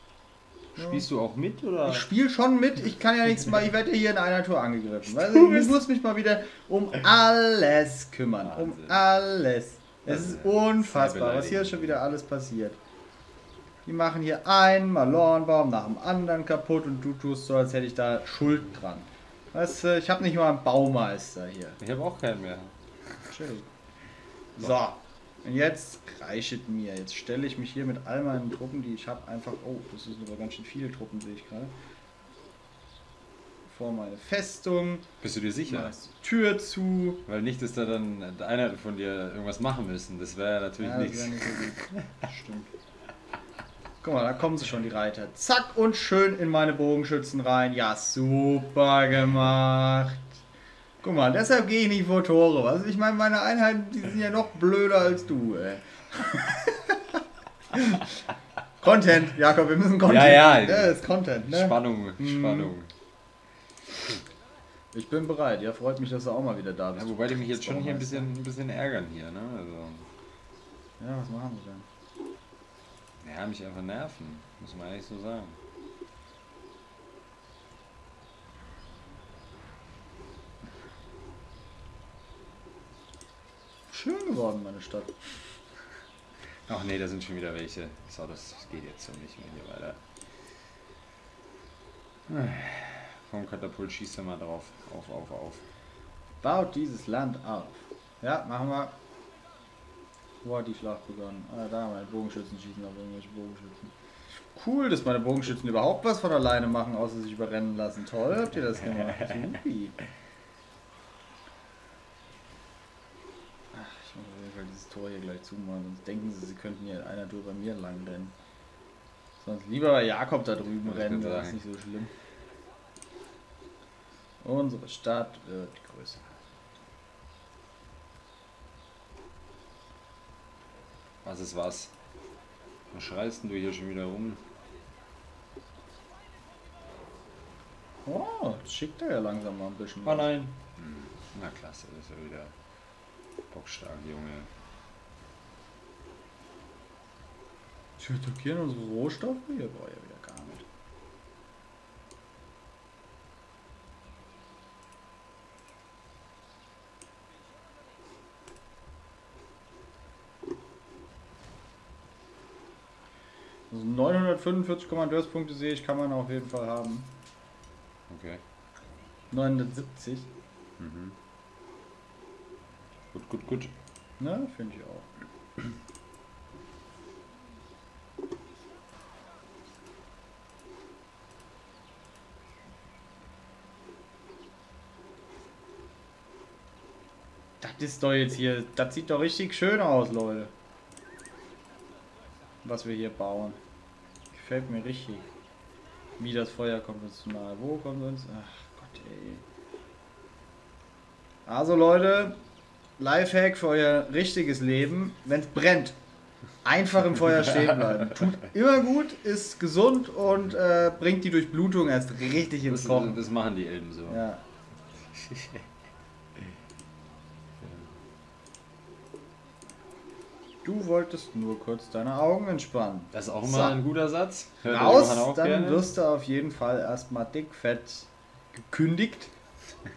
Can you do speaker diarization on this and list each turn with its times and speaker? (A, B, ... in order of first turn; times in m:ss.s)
0:00.7-0:02.1 A
0:00.8-0:01.1 B
0:01.8-0:12.8 B
0:05.0-0:05.8 A
0:08.4-0:09.0 A
0:10.0-0:12.0 A
0:13.8-0:21.8 B
0:21.8-0:23.2 A
0:23.2-0:23.7 B
0:24.6-0:31.7 B
0:33.6-0:35.1 B
0:35.2-0:35.9 A
0:35.6-0:37.2 B
0:37.2-0:42.1 A
0:40.8-0:42.7 B
0:44.0-0:50.4 B
0:51.0-0:57.2 B
0:57.7-0:58.2 B
0:58.8-1:02.7 B
1:00.0-1:02.9 A
1:04.9-1:08.3 B
1:06.9-1:10.1 A
1:11.0-1:11.9 B
1:13.2-1:15.6 A
1:23.9-1:25.2 B
1:26.7-1:30.0 A
1:32.3-1:35.6 A
1:36.4-1:39.0 B
1:40.4-1:43.9 B
1:44.5-1:50.0 B
1:48.9-1:49.3 A
1:53.7-1:58.3 B
1:59.4-2:02.1 B
2:00.8-2:01.6 A
2:04.4-2:06.3 B
2:11.2-2:11.9 A
2:12.9-2:14.5 A
2:18.0-2:20.3 B
2:20.0-2:22.5 A
2:23.5-2:24.5 A
2:28.0-2:30.6 B
2:43.7-2:47.1 B
2:48.1-2:48.4 A
2:49.3-2:50.3 B
2:50.8-2:51.2 A
2:53.1-2:53.7 A
2:54.2-2:55.1 B
3:07.6-3:10.5 B
3:12.6-3:13.6 B
3:14.3-3:15.3 B
3:16.2-3:19.4 B
3:21.4-3:22.4 B
3:23.0-3:26.0 B
3:26.6-3:33.2 B
3:27.3-3:28.3 A
3:32.6-3:34.2 A
3:34.1-3:34.4 B
3:35.0-3:35.7 A
3:37.6-3:37.9 A
3:40.6-3:43.8 B
3:43.1-3:45.9 A
3:44.6-3:49.3 B